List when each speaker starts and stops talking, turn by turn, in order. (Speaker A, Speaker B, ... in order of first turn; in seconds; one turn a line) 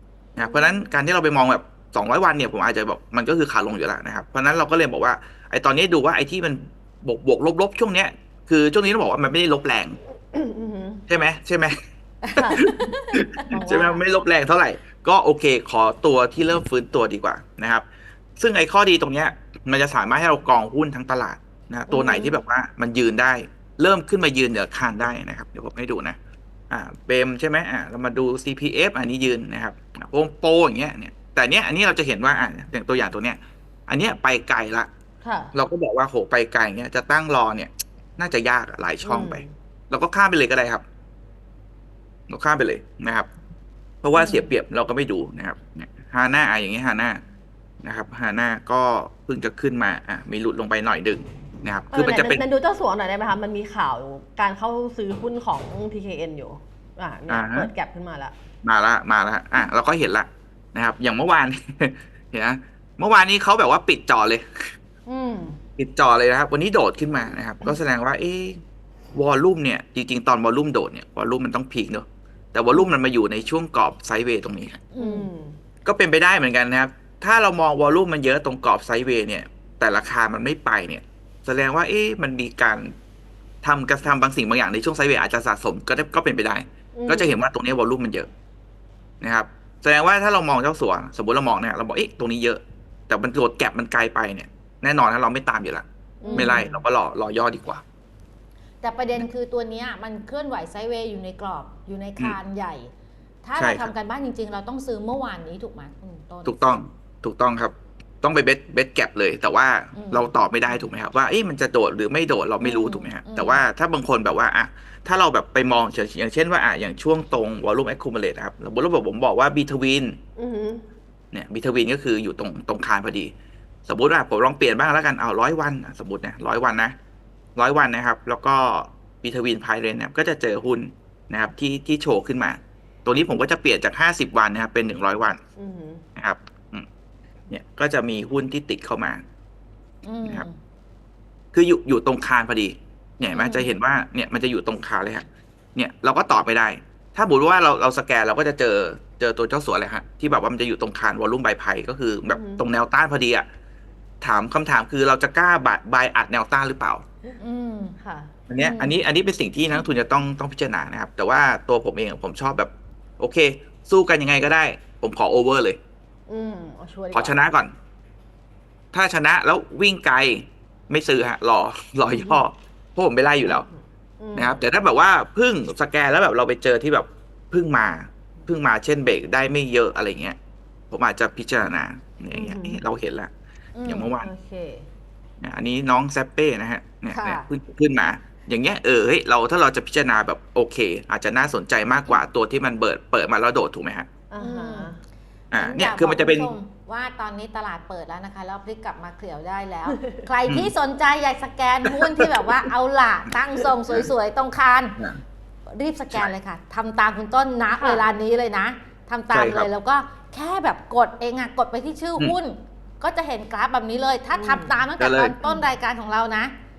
Speaker A: 0.4-10.0
Speaker B: 10.3-11.1
Speaker A: 11.1-11.7
Speaker C: 12.2-14.0
Speaker B: 12.4-12.7
Speaker A: 12.5-17.9
Speaker A: 18.4-26.2
Speaker C: 21.9-22.4
Speaker B: 22.0-22.3
Speaker A: 26.7-34.9
Speaker B: 35.2-35.5
Speaker A: 35.5-40.8
Speaker B: 39.0-39.5
Speaker A: 42.3-43.3
Speaker A: 44.0-47.2
Speaker C: 44.1-44.5
Speaker A: 47.8-52.4
Speaker B: 51.9-58.3
Speaker A: 57.3-57.7
Speaker A: 58.6-64.7
Speaker B: 65.1-65.6
Speaker A: 65.8-68.6
Speaker A: 69.1-74.8
Speaker C: 74.9-75.3
Speaker B: 75.0-75.6
Speaker A: 75.8-82.9
Speaker A: 83.6-88.3
Speaker B: 86.9-87.4
Speaker A: 89.2-97.8
Speaker B: 96.2-96.7
Speaker C: 96.2-96.7
Speaker C: 98.8-102.9
Speaker C: 103.4-106.8
Speaker A: 103.6-103.9
Speaker A: 106.5-120.2
Speaker C: 110.0-110.3
Speaker C: 112.6-113.7
Speaker B: 120.4-120.8
Speaker A: 121.3-123.3
Speaker A: 123.9-126.9
Speaker A: 127.6-135.4
Speaker B: 135.6-136.0
Speaker A: 136.2-136.9
Speaker A: 137.5-139.2
Speaker C: 140.0-140.6
Speaker A: 141.5-153.5
Speaker C: 143.3-143.7
Speaker B: 152.3-152.7
Speaker A: 154.2-157.0
Speaker C: 157.4-158.0
Speaker B: 158.0-158.3
Speaker A: 158.5-165.8
Speaker C: 158.6-159.0
Speaker B: 166.3-167.4
Speaker A: 167.1-167.7
Speaker A: 168.9-173.7
Speaker B: 172.1-172.4
Speaker B: 173.4-174.6
Speaker A: 174.3-180.4
Speaker A: 180.9-183.3
Speaker B: 182.3-182.8
Speaker C: 183.8-184.1
Speaker A: 183.8-184.3
Speaker B: 184.2-184.9
Speaker A: 185.4-194.1
Speaker C: 187.1-187.5
Speaker B: 194.3-195.0
Speaker C: 194.4-194.9
Speaker A: 195.5-196.5
Speaker C: 195.5-205.0
Speaker B: 200.0-200.2
Speaker A: 201.8-202.4
Speaker A: 203.6-204.1
Speaker C: 205.7-216.5
Speaker B: 207.8-208.1
Speaker A: 209.3-209.7
Speaker B: 214.3-214.8
Speaker A: 215.0-215.3